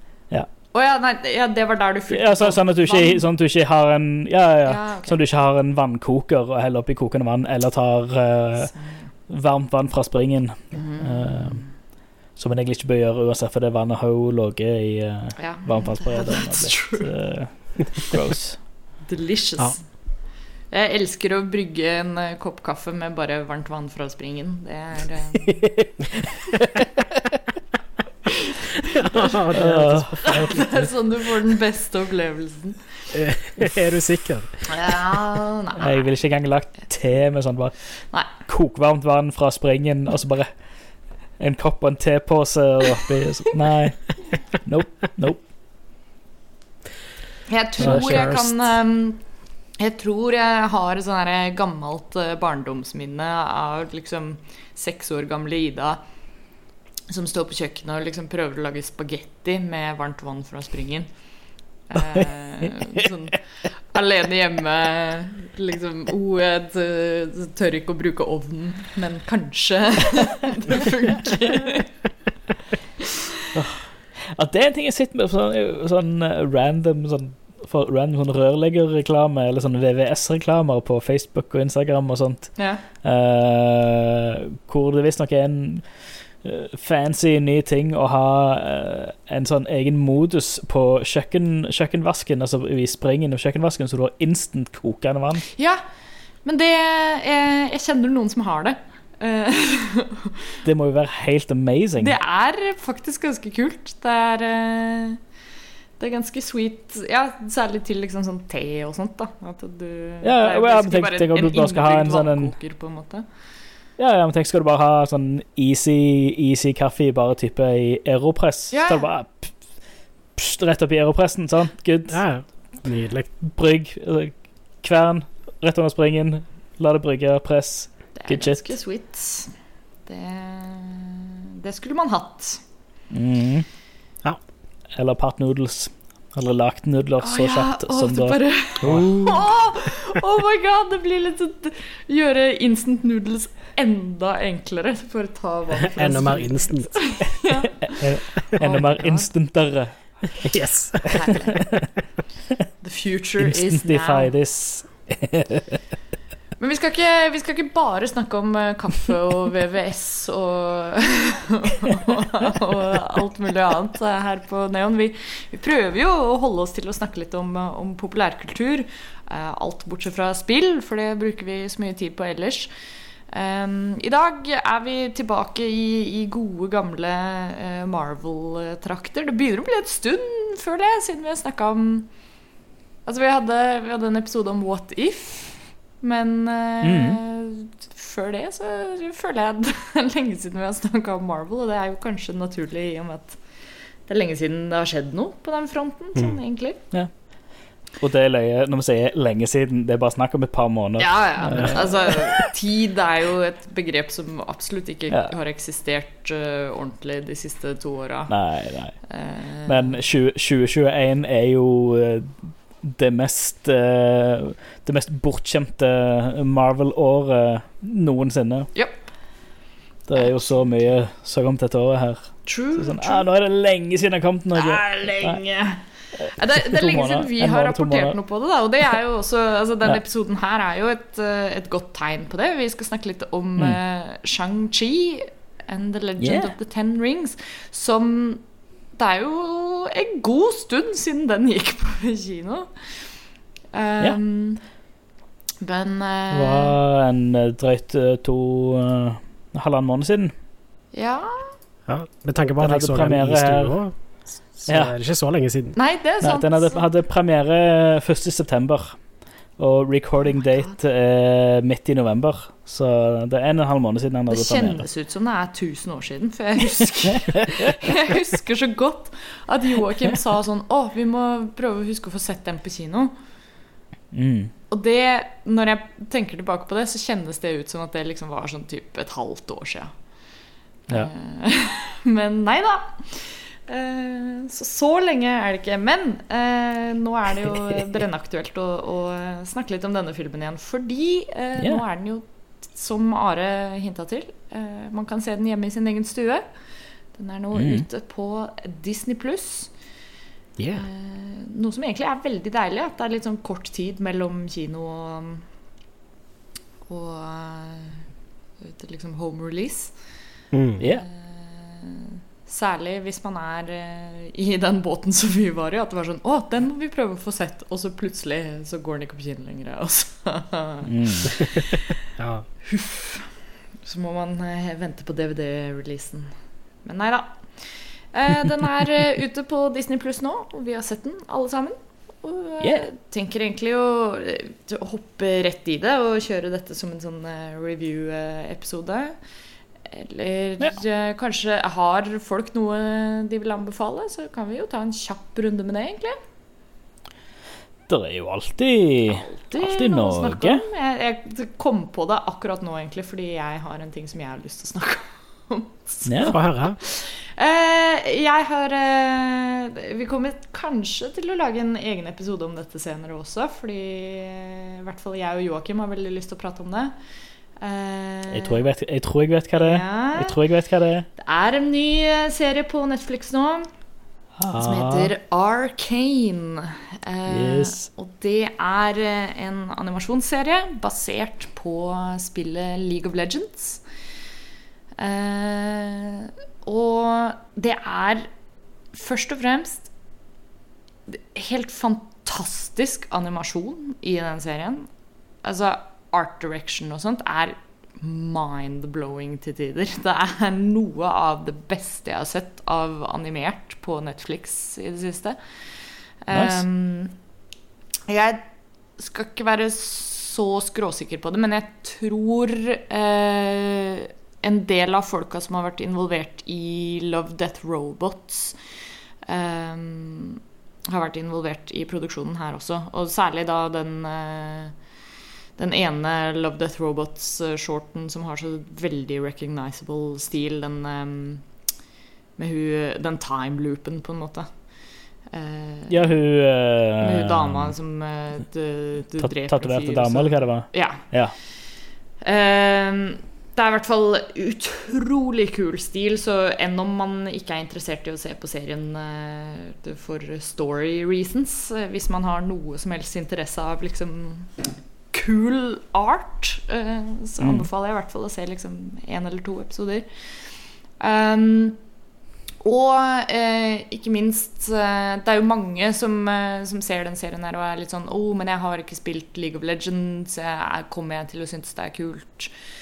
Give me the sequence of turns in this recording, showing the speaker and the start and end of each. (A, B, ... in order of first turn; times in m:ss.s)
0:00.7-0:03.2 A
0:02.1-0:08.7 B
0:04.6-0:05.2 A
0:08.6-0:09.1 A
0:09.3-0:11.6 B
0:10.7-0:11.7 A
0:12.4-0:18.6 B
0:15.4-0:17.1 A
0:19.0-0:20.0 A
0:20.7-0:25.9 A
0:25.6-0:25.9 B
0:26.5-0:27.2 B
0:28.3-0:29.3 A
0:28.9-0:31.0 C
0:29.6-0:30.4 B
0:30.2-0:33.1 A
0:33.1-0:34.7 C
0:34.7-0:36.0 A
0:35.8-0:37.8 B
0:38.4-0:40.5 B
0:41.4-0:45.5 B
0:47.5-0:49.2 A
0:47.8-0:48.5 B
0:47.8-0:48.4 C
0:49.8-0:56.0 A
0:57.1-1:01.1 A
1:01.9-1:12.0 A
1:02.0-1:03.0 B
1:14.2-1:25.9 B
1:22.6-1:22.8 A
1:26.4-1:35.4 B
1:35.5-1:35.8 A
1:36.4-1:40.6 A
1:40.6-1:42.1 B
1:42.0-1:45.2 A
1:46.0-1:53.2 A
1:50.2-1:52.5 B
1:54.0-1:59.6 B
1:58.7-1:59.1 A
2:00.4-2:02.2 B
2:02.1-2:03.3 C
2:03.4-2:08.6 B
2:08.2-2:09.5 A
2:10.1-2:12.6 A
2:13.1-2:13.7 B
2:15.0-2:19.1 B
2:17.2-2:29.3 A
2:18.8-2:19.4 C
2:26.0-2:27.2 C
2:27.8-2:30.5 B
2:30.4-2:31.7 C
2:31.1-2:31.8 A
2:31.3-2:31.8 B
2:32.8-2:34.3 A
2:33.4-2:35.8 B
2:36.6-2:52.7 A
2:53.3-3:02.1 A
3:03.1-3:13.4 A
3:06.8-3:07.2 B
3:14.1-3:16.8 A
3:18.0-3:22.5 B
3:21.0-3:28.4 A
3:28.3-3:29.0 B
3:29.0-3:30.0 A
3:29.7-3:38.7 B
3:40.1-3:45.4 B
3:40.2-3:40.6 A
3:42.5-3:43.2 A
3:44.5-3:58.4 A
3:46.2-3:48.2 B
3:56.2-3:56.5 B
3:59.0-4:02.7 A
4:03.7-4:04.6 A
4:05.6-4:06.8 A
4:06.3-4:10.3 B
4:10.9-4:11.5 A
4:11.9-4:15.8 C
4:12.6-4:13.8 B
4:14.7-4:14.9 B
4:15.8-4:16.8 A
4:16.2-4:19.0 B
4:19.6-4:24.8 B
4:20.2-4:20.7 A
4:24.3-4:33.1 A
4:27.4-4:27.9 B
4:34.1-4:34.5 B
4:34.7-4:39.9 A
4:40.9-4:56.4 A
4:57.1-4:59.7 A
4:57.6-4:57.8 B
5:00.6-5:00.8 C
5:00.8-5:05.4 A
5:06.9-5:08.0 A
5:08.6-5:09.9 A
5:10.5-5:10.8 C
5:10.9-5:22.0 A
5:20.8-5:21.3 B
5:22.2-5:22.5 C
5:22.6-5:23.3 A
5:23.8-5:26.3 A
5:26.8-5:39.2 A
5:32.6-5:32.9 B
5:39.9-5:46.2 A
5:47.9-5:50.6 B
5:49.1-6:07.0 A
5:56.1-5:56.4 B
5:56.3-5:56.8 C
6:07.6-6:08.6 A
6:08.3-6:11.1 B
6:09.6-6:10.4 A
6:11.2-6:13.7 A
6:14.4-6:15.1 B
6:14.6-6:23.8 A
6:17.3-6:17.9 B
6:25.0-6:28.3 A
6:28.9-6:29.9 A
6:31.1-6:34.9 A
6:35.4-6:45.4 A
6:46.2-6:47.1 A
6:46.3-6:46.6 B
6:48.1-6:48.4 A
6:49.0-6:58.6 A
6:59.2-7:04.8 A
7:05.6-7:11.4 A
7:12.4-7:14.5 A
7:15.3-7:16.1 A
7:15.9-7:17.7 B
7:17.0-7:21.0 A
7:19.2-7:21.3 B
7:22.2-7:40.1 A
7:37.4-7:37.7 B
7:41.0-7:41.8 A
7:42.6-7:52.5 A